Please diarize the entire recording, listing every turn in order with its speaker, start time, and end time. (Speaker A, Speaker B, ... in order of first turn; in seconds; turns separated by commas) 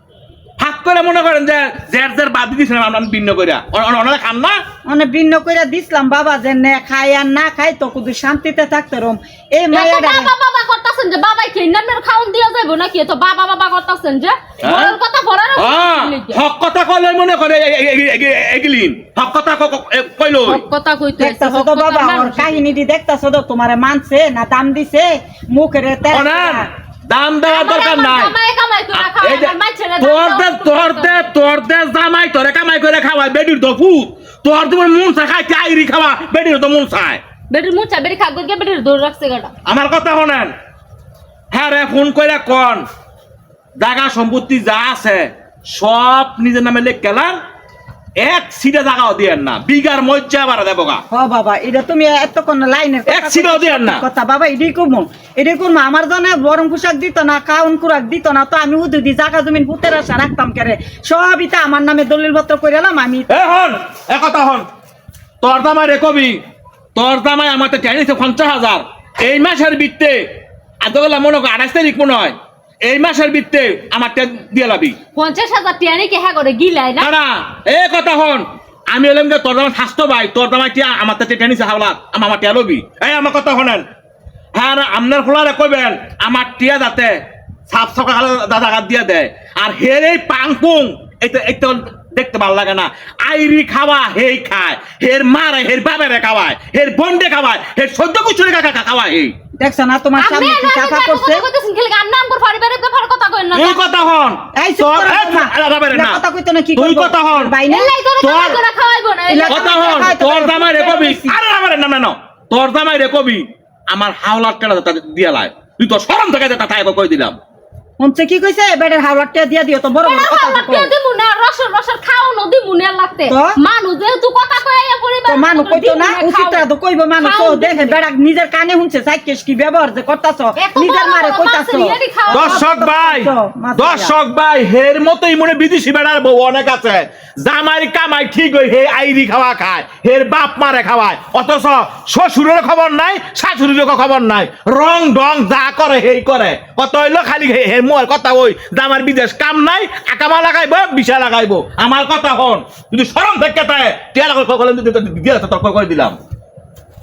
Speaker A: 0.6-4.6, Speaker B: 4.9-10.3, Speaker C: 9.7-16.4, Speaker A: 14.6-14.9, Speaker A: 15.6-20.6, Speaker C: 20.4-22.6, Speaker B: 21.2-26.7, Speaker A: 26.1-28.3, Speaker C: 27.5-31.3, Speaker A: 28.9-37.2, Speaker C: 37.5-39.5, Speaker A: 39.6-40.5, Speaker A: 41.5-42.8, Speaker A: 43.8-47.4, Speaker A: 48.2-51.0, Speaker B: 51.1-63.3, Speaker A: 53.1-54.0, Speaker A: 63.3-64.7, Speaker A: 65.4-66.4, Speaker A: 66.9-70.2, Speaker A: 70.8-75.0, Speaker C: 75.1-77.1, Speaker A: 77.0-83.8, Speaker A: 84.5-87.2, Speaker A: 87.7-99.3, Speaker B: 99.6-101.4, Speaker C: 100.2-103.8, Speaker A: 103.5-106.2, Speaker B: 104.5-108.6, Speaker A: 106.8-107.5, Speaker C: 107.7-110.1, Speaker B: 109.3-111.4, Speaker A: 109.5-117.3, Speaker B: 118.0-120.9, Speaker C: 120.0-126.7, Speaker B: 123.3-123.6, Speaker B: 125.2-134.1, Speaker C: 127.2-128.0, Speaker C: 130.6-132.6, Speaker A: 132.3-156.2